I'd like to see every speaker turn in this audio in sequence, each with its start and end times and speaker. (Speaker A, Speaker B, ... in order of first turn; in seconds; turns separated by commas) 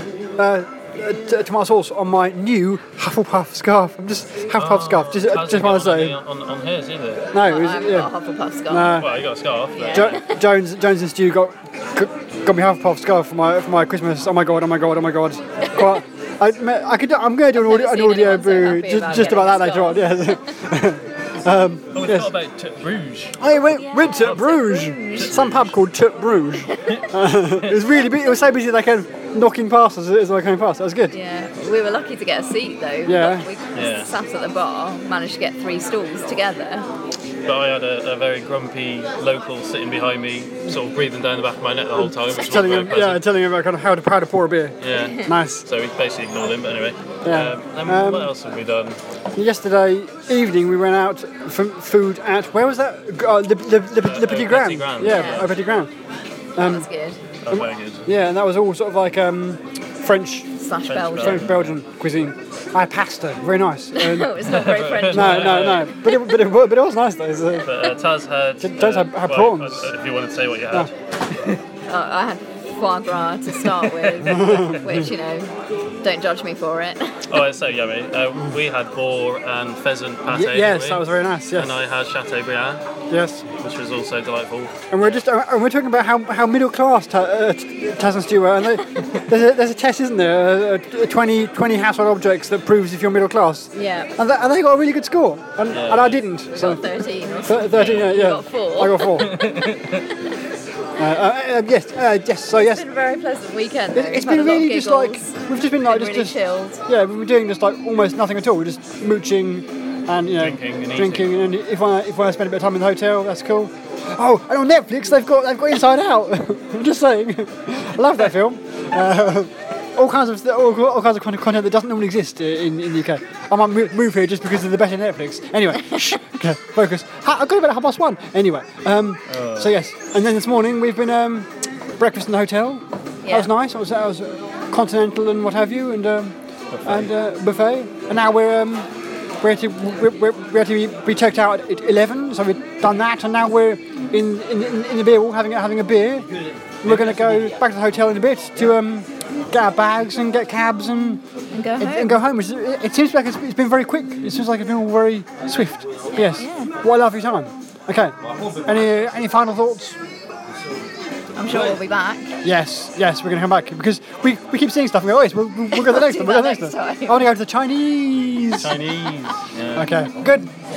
Speaker A: 0.4-6.2, Speaker B: 4.6-7.3, Speaker A: 7.3-8.1, Speaker C: 7.3-9.0, Speaker A: 8.7-9.3, Speaker B: 8.9-10.2, Speaker C: 9.7-10.4, Speaker A: 9.9-22.4, Speaker C: 15.7-16.0, Speaker C: 17.5-20.6, Speaker B: 21.9-23.4, Speaker A: 23.4-31.2, Speaker C: 23.4-25.3, Speaker B: 24.2-24.6, Speaker B: 25.1-25.8, Speaker C: 31.1-36.9, Speaker A: 33.0-33.5, Speaker B: 33.7-34.1, Speaker B: 37.5-43.2, Speaker A: 41.9-45.7, Speaker B: 44.8-49.0, Speaker C: 45.0-45.3, Speaker A: 47.2-48.3, Speaker A: 49.4-55.9, Speaker B: 54.0-55.6, Speaker C: 55.0-55.5, Speaker A: 56.6-56.9, Speaker C: 56.6-57.2, Speaker B: 57.4-58.0, Speaker A: 57.5-60.6, Speaker C: 60.6-61.5, Speaker B: 60.9-61.6, Speaker A: 61.1-64.4, Speaker C: 63.9-66.3, Speaker B: 64.4-65.9, Speaker A: 65.1-68.0, Speaker B: 67.7-70.9, Speaker A: 68.6-69.9, Speaker C: 71.9-77.2, Speaker B: 73.8-74.9, Speaker A: 74.3-75.0, Speaker B: 77.3-82.8, Speaker A: 80.3-81.8, Speaker A: 83.1-83.5, Speaker B: 83.6-84.8, Speaker A: 84.9-99.4, Speaker C: 93.7-94.1, Speaker B: 95.7-96.3, Speaker C: 96.5-99.4, Speaker B: 97.7-98.2, Speaker B: 99.2-100.1, Speaker A: 101.0-102.8, Speaker C: 102.6-106.8, Speaker A: 103.9-131.5, Speaker B: 110.4-111.3, Speaker B: 129.3-129.7, Speaker A: 132.0-138.9, Speaker C: 133.2-133.5, Speaker B: 136.7-137.1, Speaker A: 139.4-146.3, Speaker A: 146.8-151.2, Speaker B: 146.8-147.4, Speaker C: 151.5-152.2, Speaker A: 151.8-160.0, Speaker C: 156.2-156.7, Speaker C: 161.4-162.3, Speaker A: 162.4-168.8, Speaker C: 165.7-167.3, Speaker B: 168.6-169.9, Speaker A: 169.7-170.5